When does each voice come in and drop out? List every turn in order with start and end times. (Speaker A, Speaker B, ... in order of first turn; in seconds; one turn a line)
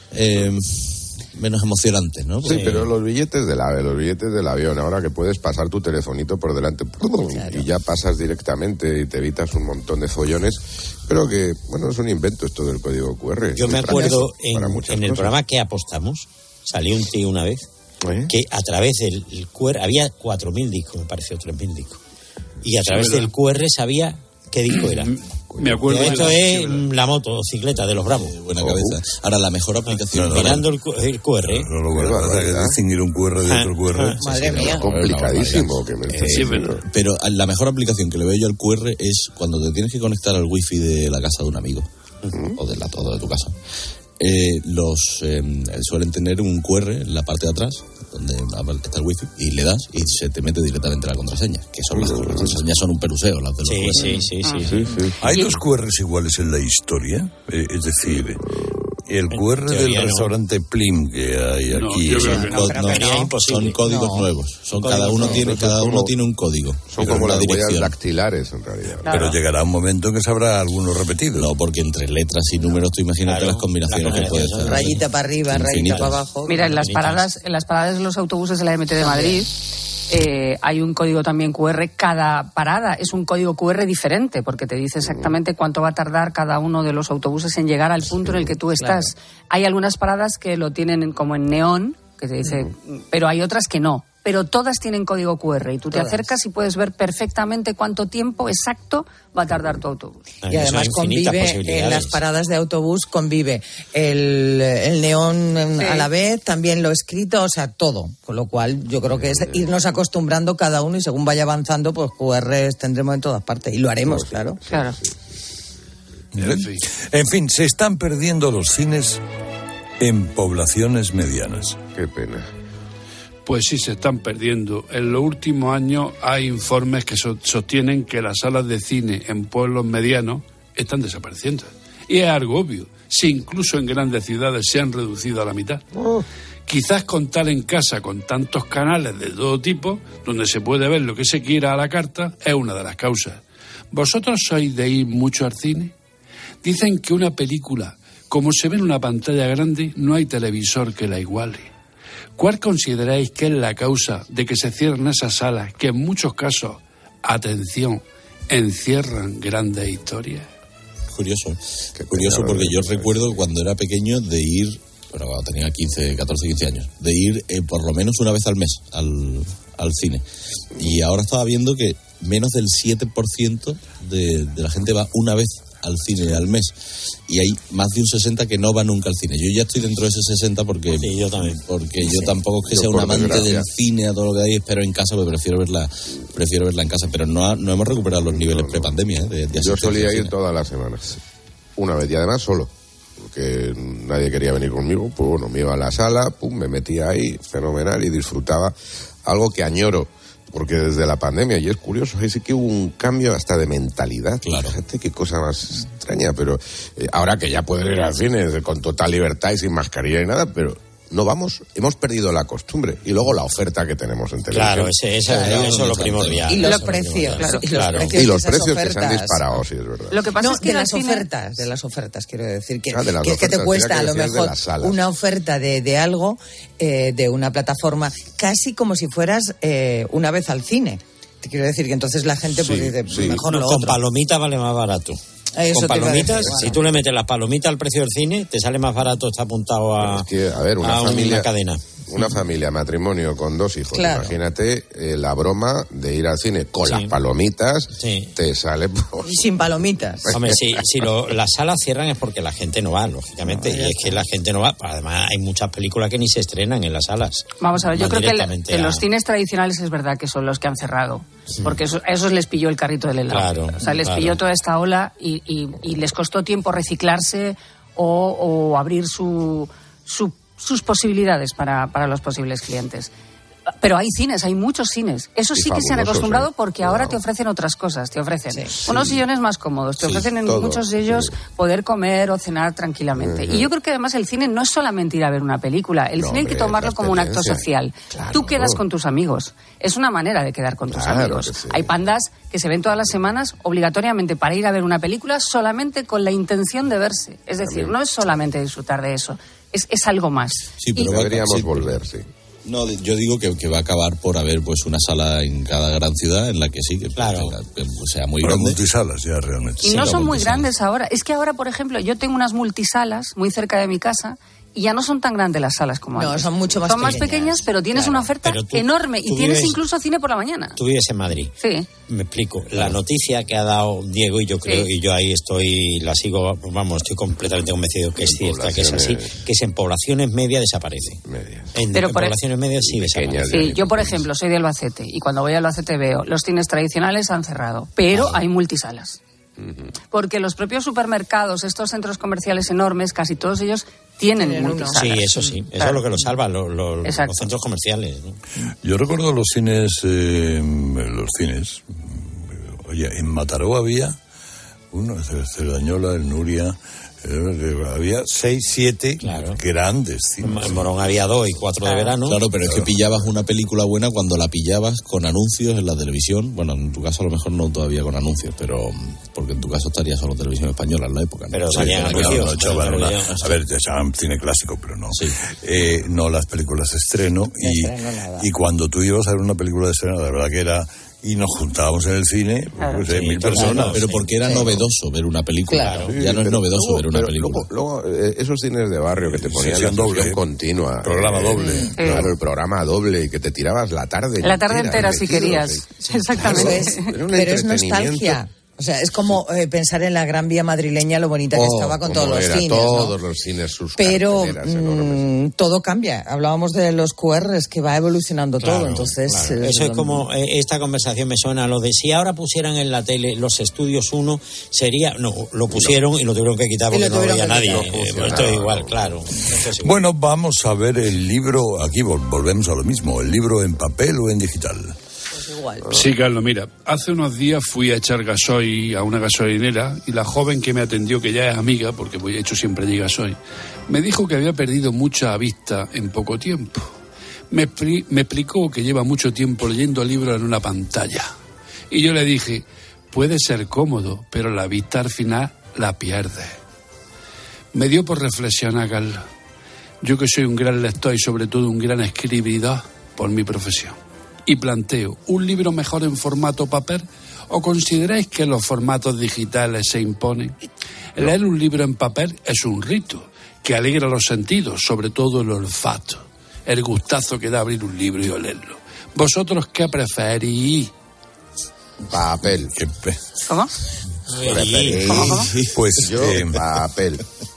Speaker A: 0.1-2.9
Speaker B: 2.4-15.3
Speaker C: 7.3-7.7
Speaker D: 13.6-17.6
Speaker C: 13.9-14.2
Speaker B: 18.0-18.3
Speaker D: 18.3-22.0
Speaker D: 22.6-25.1
Speaker E: 22.8-23.3
Speaker E: 24.7-26.8
Speaker B: 25.5-26.3
Speaker D: 25.8-28.4
Speaker A: 28.1-30.7
Speaker B: 28.6-29.0
Speaker D: 29.9-31.7
Speaker F: 30.1-30.6
Speaker F: 31.5-34.2
Speaker B: 31.9-32.8
Speaker D: 33.4-34.2
Speaker C: 34.2-34.9
Speaker A: 34.2-41.9
Speaker B: 34.5-36.8
Speaker E: 36.3-36.8
Speaker B: 42.3-42.6
Speaker A: 42.6-43.5
Speaker A: 44.2-54.3
Speaker B: 51.9-52.6
Speaker D: 53.6-55.0
Speaker G: 54.4-54.7
Speaker B: 54.6-55.3
Speaker F: 55.2-58.4
Speaker G: 55.3-55.5
Speaker B: 58.1-58.9
Speaker F: 59.0-62.5
Speaker D: 59.3-60.3
Speaker E: 61.7-63.1
Speaker A: 62.5-67.9
Speaker D: 62.5-63.8
Speaker C: 63.8-64.3
Speaker D: 64.7-65.4
Speaker C: 65.2-65.4
Speaker B: 65.3-66.1
Speaker B: 66.9-69.2
Speaker G: 69.0-69.4
Speaker F: 69.1-71.5
Speaker A: 71.3-76.2
Speaker D: 73.2-75.0
Speaker C: 74.6-76.7
Speaker D: 75.8-77.3
Speaker G: 76.4-79.5
Speaker C: 79.0-79.4
Speaker G: 80.1-100.2
Speaker B: 85.0-85.3
Speaker B: 88.3-88.5
Speaker C: 88.8-89.1
Speaker C: 95.9-96.3
Speaker B: 99.5-99.8
Speaker D: 100.4-102.2
Speaker C: 100.5-114.6
Speaker G: 105.8-106.1
Speaker B: 109.1-109.7
Speaker B: 114.0-115.3
Speaker G: 114.7-115.0
Speaker F: 116.3-119.2
Speaker E: 116.4-116.8
Speaker F: 120.0-121.8
Speaker B: 121.9-122.5
Speaker E: 123.5-135.8
Speaker B: 135.9-136.2
Speaker E: 136.7-143.4
Speaker E: 143.9-145.9
Speaker E: 146.6-151.7
Speaker E: 152.4-160.5
Speaker A: 161.1-161.6
Speaker B: 161.9-163.2
Speaker A: 162.1-170.2
Speaker A: 170.8-176.7
Speaker A: 177.3-190.3
Speaker D: 180.9-182.4
Speaker B: 182.7-183.7
Speaker B: 188.2-191.2
Speaker B: 191.8-215.0
Speaker A: 204.4-204.8
Speaker D: 214.5-218.1
Speaker A: 215.2-216.6
Speaker C: 216.4-219.4
Speaker G: 216.6-217.7
Speaker B: 218.1-220.2
Speaker G: 220.1-221.3
Speaker C: 220.4-234.0
Speaker B: 222.9-225.0
Speaker B: 232.6-233.5
Speaker D: 233.3-240.3
Speaker C: 235.5-236.9
Speaker B: 236.3-236.6
Speaker B: 240.0-241.5
Speaker D: 240.8-241.8
Speaker B: 242.1-249.3
Speaker C: 243.9-244.4
Speaker D: 246.8-247.2
Speaker D: 248.0-248.3
Speaker C: 249.2-250.3
Speaker B: 250.2-251.1
Speaker D: 250.3-259.0
Speaker B: 253.5-253.9
Speaker G: 257.6-273.1
Speaker D: 263.3-264.4
Speaker G: 273.8-301.1
Speaker B: 275.5-277.2
Speaker C: 278.5-278.8
Speaker B: 278.9-279.2
Speaker B: 280.0-281.4
Speaker B: 283.1-283.7
Speaker B: 286.1-288.8
Speaker B: 290.9-291.9
Speaker B: 297.6-297.9
Speaker A: 300.8-302.0
Speaker B: 301.0-302.2
Speaker A: 302.6-308.8
Speaker D: 307.1-307.5
Speaker F: 308.4-310.7
Speaker G: 309.8-320.8
Speaker D: 309.9-310.2
Speaker C: 316.1-318.3
Speaker D: 318.4-319.8
Speaker D: 320.8-321.5
Speaker G: 321.6-321.9
Speaker D: 322.1-331.2
Speaker G: 324.6-324.9
Speaker B: 328.2-329.4
Speaker B: 331.2-331.8
Speaker D: 331.7-333.8
Speaker G: 331.9-332.4
Speaker B: 332.8-334.3
Speaker G: 333.5-339.2
Speaker D: 338.1-338.4
Speaker B: 339.6-339.9
Speaker G: 340.1-346.2
Speaker C: 344.4-345.3
Speaker D: 344.9-348.4
Speaker G: 347.0-347.5
Speaker F: 348.8-354.2
Speaker F: 354.9-360.9
Speaker D: 359.2-359.6
Speaker D: 360.4-362.5
Speaker G: 361.8-362.2
Speaker A: 362.2-373.5
Speaker D: 371.5-373.4
Speaker F: 371.7-384.1
Speaker A: 375.1-375.4
Speaker C: 377.6-378.5
Speaker G: 382.8-383.1
Speaker D: 383.1-384.6
Speaker A: 383.4-387.7
Speaker C: 384.4-384.8
Speaker C: 385.7-386.0
Speaker D: 385.8-386.1
Speaker B: 385.9-398.4
Speaker F: 389.2-390.4
Speaker F: 391.0-392.2
Speaker G: 391.9-392.3
Speaker G: 394.4-397.2
Speaker C: 396.4-403.2
Speaker B: 401.5-405.3
Speaker C: 404.0-410.2
Speaker D: 408.6-420.0
Speaker B: 415.7-416.0
Speaker C: 416.9-418.0
Speaker B: 417.6-419.1
Speaker F: 419.8-424.9
Speaker C: 425.3-425.9
Speaker E: 425.9-433.4
Speaker E: 433.9-436.9
Speaker E: 437.5-441.3
Speaker E: 441.9-446.6
Speaker E: 447.7-449.2
Speaker E: 450.0-460.6
Speaker E: 461.1-470.9
Speaker B: 472.1-472.7
Speaker A: 472.9-473.1
Speaker G: 473.4-473.7
Speaker D: 474.3-475.3
Speaker B: 474.4-477.2
Speaker A: 475.0-475.9
Speaker G: 475.1-475.5
Speaker F: 475.7-476.6